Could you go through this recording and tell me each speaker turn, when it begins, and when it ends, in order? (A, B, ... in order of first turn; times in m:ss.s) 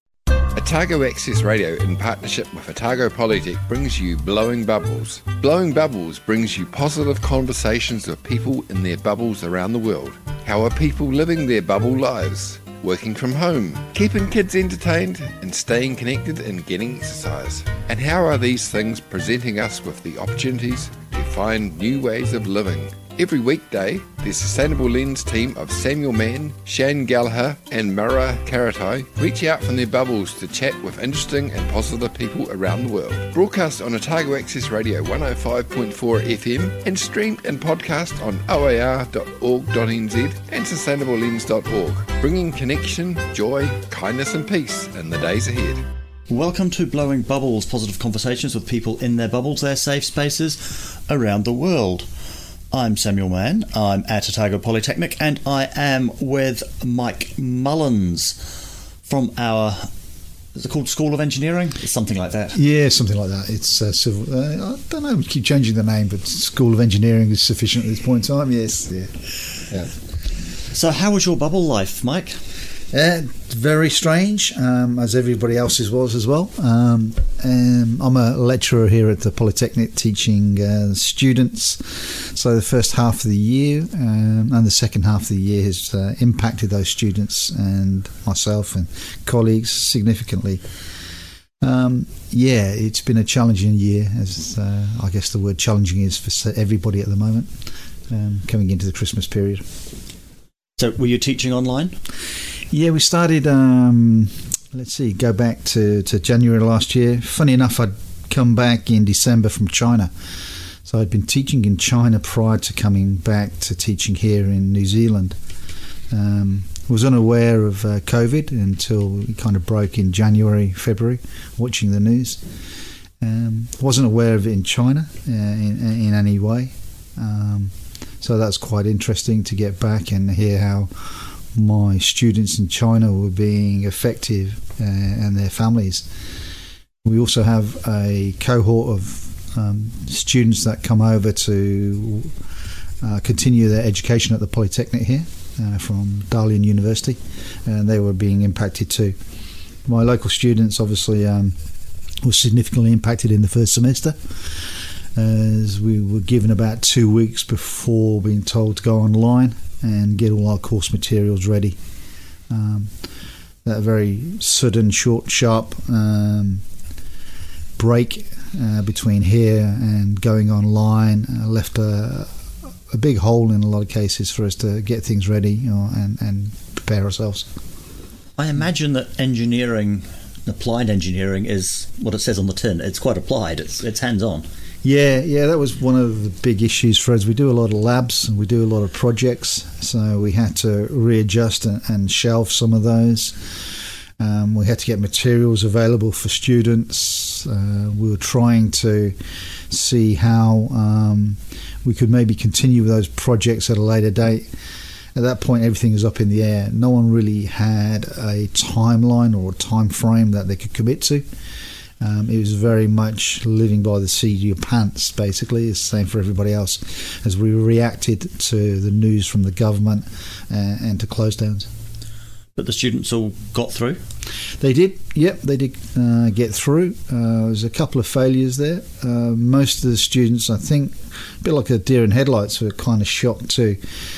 0:00.6-0:45.8 A
0:46.3-0:52.1 B
0:52.7-0:59.9 B
1:00.6-1:02.6 B
1:02.6-1:09.9 C
1:10.7-1:12.4 B
1:12.9-1:30.6 C
1:31.6-1:37.5 C
1:38.1-1:39.6 C
1:40.8-1:42.0 B
1:42.7-1:50.1 C
1:50.8-1:55.4 C
1:56.1-2:02.4 C
2:03.2-2:16.1 C
2:17.0-2:22.3 C
2:23.0-2:29.2 C
2:29.9-2:31.6 C
2:32.2-2:34.6 C
2:35.2-2:41.8 C
2:42.5-2:43.0 C
2:43.6-2:46.6 C
2:47.8-2:52.3 C
2:52.9-2:57.5 C
2:58.4-3:04.5 B
3:04.8-3:13.6 C
3:14.2-3:19.2 C
3:19.7-3:24.5 C
3:25.2-3:31.3 C
3:32.0-3:41.7 C
3:42.6-3:44.0 B
3:44.6-3:53.8 C